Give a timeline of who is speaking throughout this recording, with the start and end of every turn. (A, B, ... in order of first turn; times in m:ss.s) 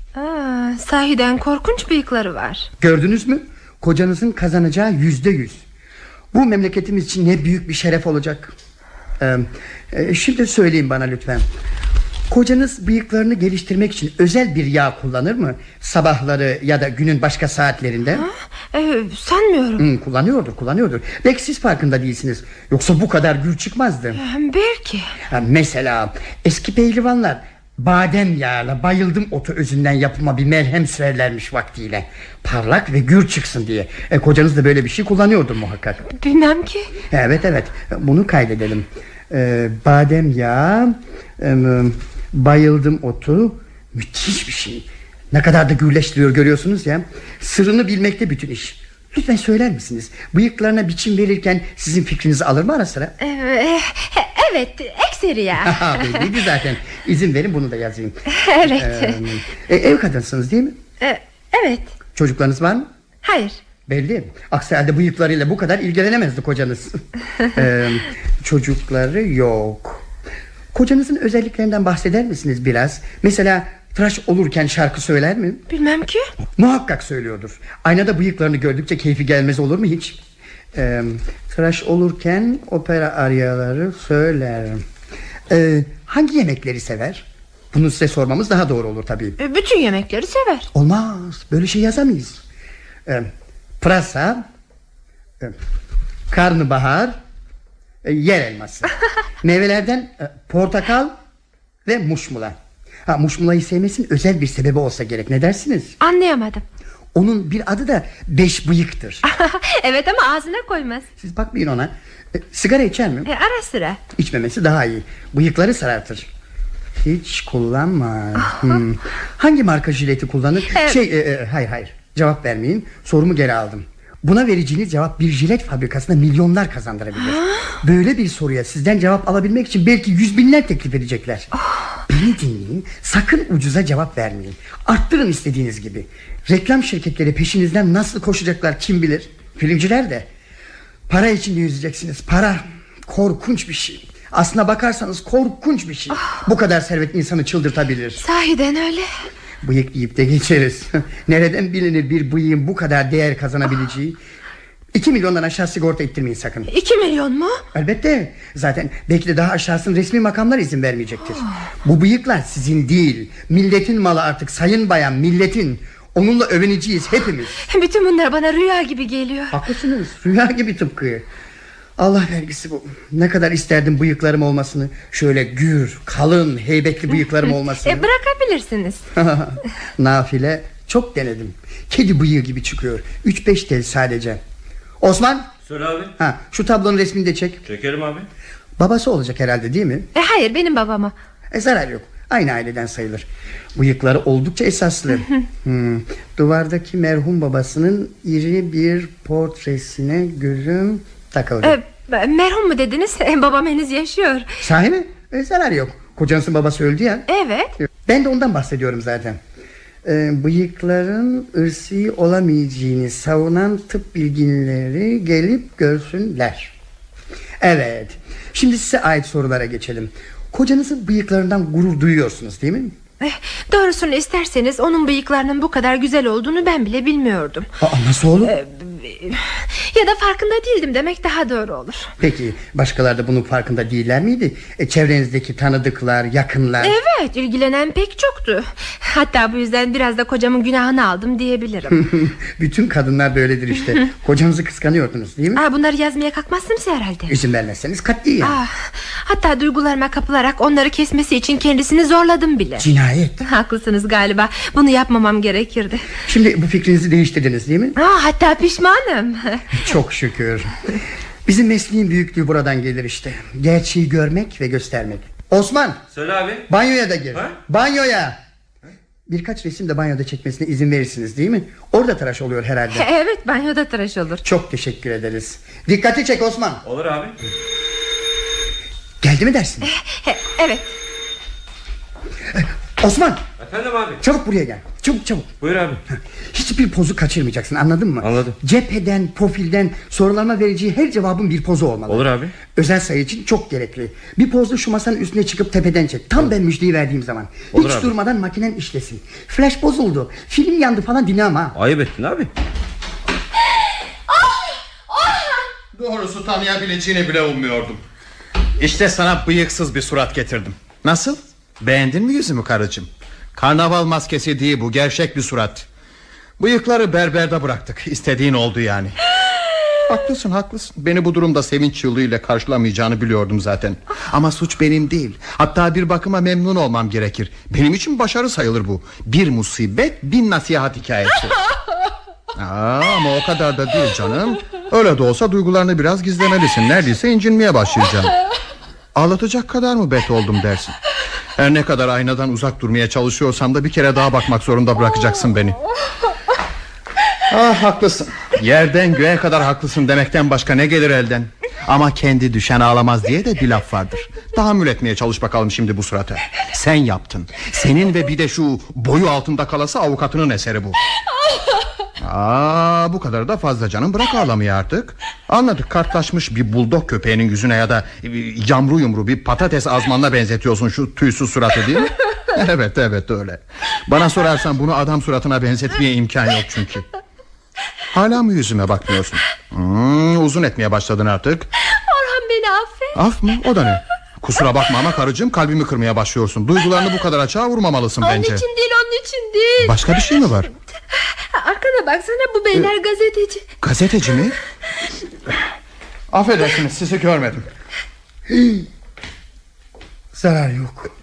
0:00.1-0:02.7 A
0:02.8-0:05.6 B
0:06.3-0:08.5 B
0:09.2-0:11.4 B
0:12.3-0:18.2 B
0:18.2-0:19.8 A
0:19.8-0:24.2 B
0:24.2-0:25.1 A
0:25.3-0:36.0 B
0:36.0-0:36.9 A
0:37.1-0:53.1 B
0:53.2-0:56.2 A
0:55.6-1:00.8 B
0:58.3-0:59.2 A
1:01.0-1:01.9 A
1:02.2-1:02.9 B
1:03.2-1:03.6 A
1:03.9-1:07.0 B
1:07.5-1:10.0 B
1:10.7-1:15.6 B
1:15.7-1:16.3 A
1:16.6-1:20.2 B
1:20.7-1:24.8 B
1:25.5-1:29.4 B
1:29.4-1:30.7 A
1:30.7-1:32.4 B
1:33.8-1:34.4 B
1:36.3-1:37.2 B
1:38.0-1:41.1 B
1:41.8-1:42.5 B
1:43.0-1:46.0 B
1:46.0-1:46.6 A
1:47.1-1:49.2 B
1:49.2-1:51.0 A
1:51.2-1:53.3 B
1:53.2-1:54.0 A
1:54.2-1:56.3 B
1:57.0-2:11.5 B
2:00.7-2:01.0 A
2:07.2-2:07.7 A
2:12.1-2:20.3 B
2:21.1-2:28.2 B
2:28.2-2:29.1 A
2:29.6-2:34.2 B
2:34.9-2:36.7 B
2:36.7-2:37.6 A
2:37.7-2:47.6 B
2:47.6-2:49.5 A
2:49.5-2:51.2 B
2:52.0-2:58.1 B
2:57.8-2:59.0 A
2:59.1-3:04.4 B
3:05.0-3:05.5 B
3:05.6-3:06.1 C
3:06.2-3:07.6 B
3:07.6-3:08.3 C
3:08.8-3:10.1 B
3:10.1-3:11.1 A
3:11.5-3:21.8 B
3:21.6-3:24.5 A
3:24.6-3:27.2 B
3:27.3-3:27.7 A
3:28.0-3:29.4 B
3:30.0-3:36.7 B
3:37.6-3:42.9 B
3:43.2-3:47.7 A
3:47.8-3:48.5 B
3:48.4-3:52.1 A
3:52.2-3:57.0 B
3:56.8-4:02.0 A
4:01.9-4:05.6 B
4:05.6-4:07.3 A
4:07.3-4:08.6 B
4:08.4-4:12.9 A
4:12.8-4:13.4 B
4:13.4-4:16.1 A
4:16.2-4:18.0 B
4:18.0-4:19.8 A
4:19.7-4:20.7 B
4:21.4-4:26.0 B
4:26.1-4:26.7 C
4:26.7-4:28.4 B
4:29.3-4:33.0 B
4:32.9-4:34.4 A
4:34.4-4:36.8 B
4:36.8-4:37.3 C
4:39.2-4:39.9 B
4:39.8-4:40.9 A
4:42.5-4:43.4 B
4:43.6-4:44.2 C
4:44.2-4:45.5 B
4:45.6-4:46.0 C
4:46.5-5:01.8 B
4:48.2-4:48.5 C
4:52.1-4:52.5 C
4:57.7-4:58.1 C
5:01.7-5:02.5 C
5:05.9-5:08.0 D
5:08.8-5:15.8 D
5:16.6-5:19.2 D
5:20.0-5:31.5 D
5:32.5-5:38.3 D
5:39.1-5:41.0 D
5:41.6-5:45.8 D
5:47.5-6:01.0 D
6:02.2-6:17.0 D
6:18.1-6:21.7 D
6:21.8-6:23.2 A
6:23.1-6:28.6 D
6:28.2-6:30.1 A
6:29.8-6:30.7 D
6:31.1-6:33.6 A
6:33.8-6:34.6 D
6:36.3-6:37.7 D
6:38.5-6:38.9 B
6:40.3-6:41.1 B